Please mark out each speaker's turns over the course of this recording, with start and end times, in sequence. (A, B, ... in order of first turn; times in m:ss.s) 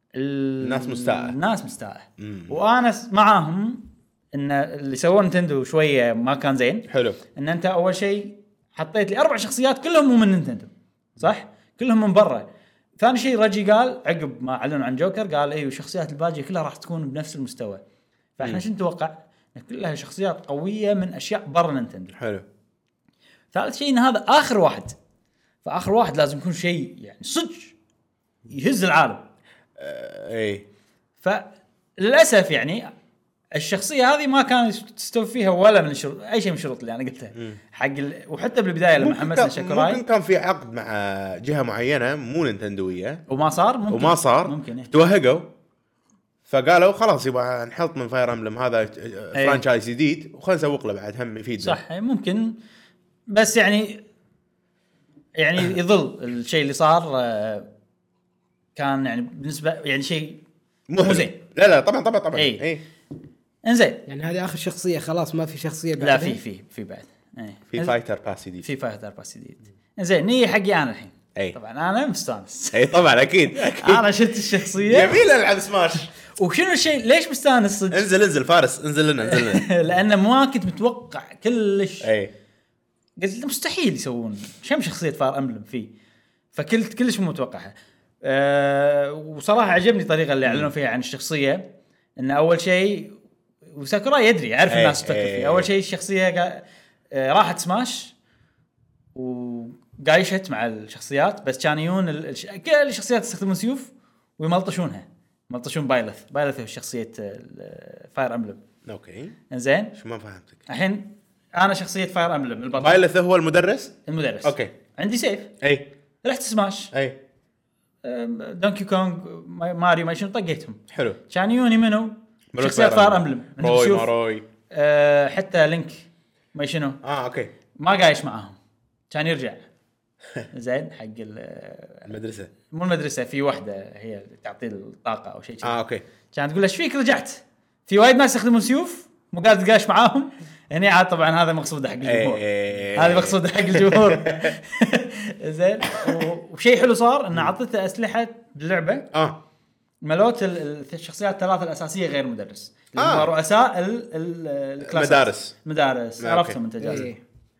0:00.1-0:12.4 A
0:00.6-0:01.3 B
0:02.2-0:02.6 B
0:06.9-0:07.2 B
0:13.0-0:17.8 A
0:18.4-0:22.2 A
0:22.2-0:22.4 B
0:23.5-0:24.9 A
0:25.6-0:27.7 A
0:28.5-0:29.2 A
0:29.8-0:30.6 B
0:31.2-0:32.9 A
0:33.5-0:40.0 A
0:39.0-0:43.2 B
0:43.3-0:44.9 A
0:43.9-0:45.5 B
0:46.5-0:51.8 B
0:49.3-0:49.6 A
0:51.6-0:52.6 A
0:53.3-0:54.0 A
0:55.4-0:57.7 A
0:58.8-1:00.4 A
1:00.9-1:02.8 B
1:01.0-1:01.4 A
1:02.3-1:02.7 A
1:03.6-1:04.0 A
1:04.1-1:06.4 C
1:06.0-1:07.9 A
1:07.7-1:08.6 B
1:08.6-1:13.0 A
1:12.7-1:14.1 B
1:13.5-1:15.2 A
1:14.6-1:16.1 B
1:16.3-1:18.1 A
1:17.9-1:19.6 B
1:19.2-1:22.1 A
1:22.0-1:22.3 B
1:23.2-1:25.9 A
1:26.5-1:31.6 A
1:30.4-1:30.7 B
1:32.2-1:33.2 A
1:33.7-1:38.1 A
1:34.7-1:35.7 B
1:39.1-1:48.6 A
1:48.8-1:49.4 B
1:49.5-1:49.9 A
1:50.0-1:50.6 B
1:50.7-1:53.0 A
1:52.8-1:54.7 B
1:54.0-1:55.5 A
1:55.6-1:55.9 B
1:56.2-1:56.9 A
1:58.0-2:04.1 A
2:00.9-2:01.2 B
2:02.5-2:04.4 B
2:04.7-2:07.0 A
2:07.0-2:07.5 B
2:07.8-2:08.6 A
2:09.1-2:09.6 A
2:10.5-2:12.1 A
2:12.1-2:12.5 B
2:12.7-2:15.8 A
2:15.6-2:16.0 B
2:16.3-2:29.1 A
2:22.0-2:24.6 B
2:25.9-2:26.2 B
2:29.1-2:29.4 B
2:30.0-2:37.1 A
2:33.0-2:33.3 B
2:34.8-2:35.5 B
2:36.2-2:36.6 B
2:36.8-2:37.2 C